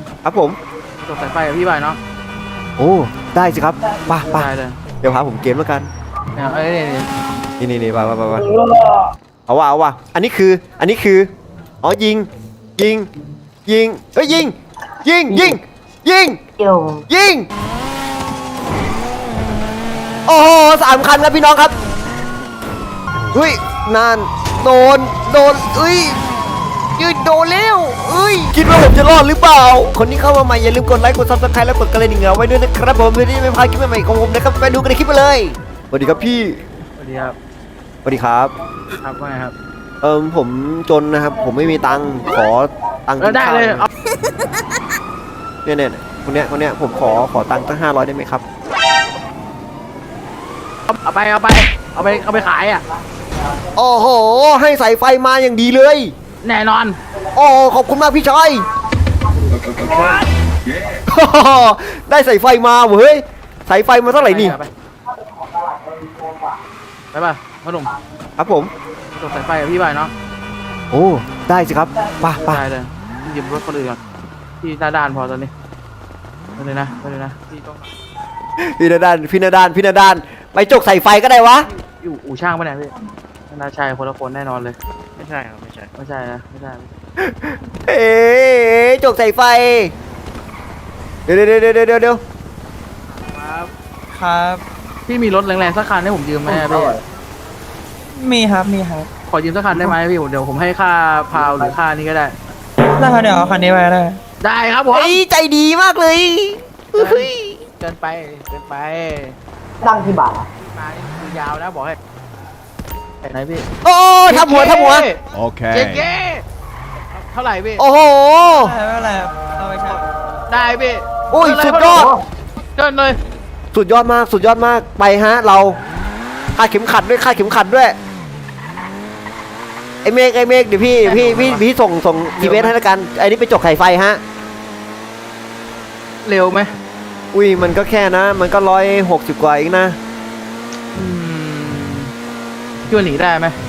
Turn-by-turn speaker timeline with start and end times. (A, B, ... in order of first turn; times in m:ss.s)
0:00.2-0:00.6 A
0:01.0-0:02.0 B
0:02.8-0:04.5 A
0:04.2-0:04.8 B
0:05.0-0:05.9 A
0:06.4-0:07.1 B
0:07.6-0:08.5 A
0:08.6-0:09.0 C
0:09.5-0:11.3 A
0:11.8-0:13.1 A
0:13.6-0:16.4 A
0:16.6-0:17.0 C
0:17.1-0:17.5 A
0:20.3-0:21.7 A
0:23.3-0:26.2 A
0:27.0-0:36.6 A
0:37.0-0:37.4 B
0:38.0-0:38.5 A
0:39.0-0:39.5 B
0:40.0-0:43.9 A
0:43.2-0:43.9 B
0:45.6-0:48.4 A
0:50.9-0:52.8 B
0:53.7-0:56.1 A
0:56.4-0:57.0 B
0:57.3-0:58.7 A
1:00.8-1:04.6 A
1:04.1-1:04.7 B
1:05.6-1:06.4 C
1:07.1-1:07.9 B
1:08.4-1:08.7 A
1:09.1-1:10.1 B
1:10.9-1:12.6 A
1:12.4-1:14.0 B
1:14.6-1:15.5 B
1:16.6-1:17.9 B
1:18.6-1:21.7 A
1:21.7-1:22.9 B
1:23.5-1:24.8 B
1:25.9-1:26.9 B
1:27.2-1:29.9 A
1:31.3-1:32.2 A
1:33.1-1:33.7 B
1:34.1-1:34.6 D
1:35.1-1:37.0 B
1:36.7-1:37.0 C
1:38.1-1:39.1 D
1:39.3-1:42.4 B
1:43.0-1:44.2 D
1:44.4-1:45.2 B
1:44.9-1:47.6 A
1:47.0-1:49.4 B
1:49.8-1:50.5 C
1:50.6-1:52.0 B
1:53.2-1:53.6 B
1:53.8-1:55.1 A
1:54.3-1:55.2 B
1:55.3-1:56.0 D
1:55.7-1:56.4 B
1:57.1-1:57.8 B
1:57.8-1:58.8 A
1:58.5-2:00.1 D
2:00.5-2:02.1 B
2:01.3-2:02.1 A
2:02.8-2:03.2 B
2:03.7-2:05.8 A
2:06.5-2:08.0 A
2:10.0-2:14.2 A
2:11.0-2:11.6 B
2:12.4-2:12.7 B
2:16.2-2:16.7 B
2:17.3-2:20.0 A
2:20.9-2:22.1 B
2:22.8-2:23.6 B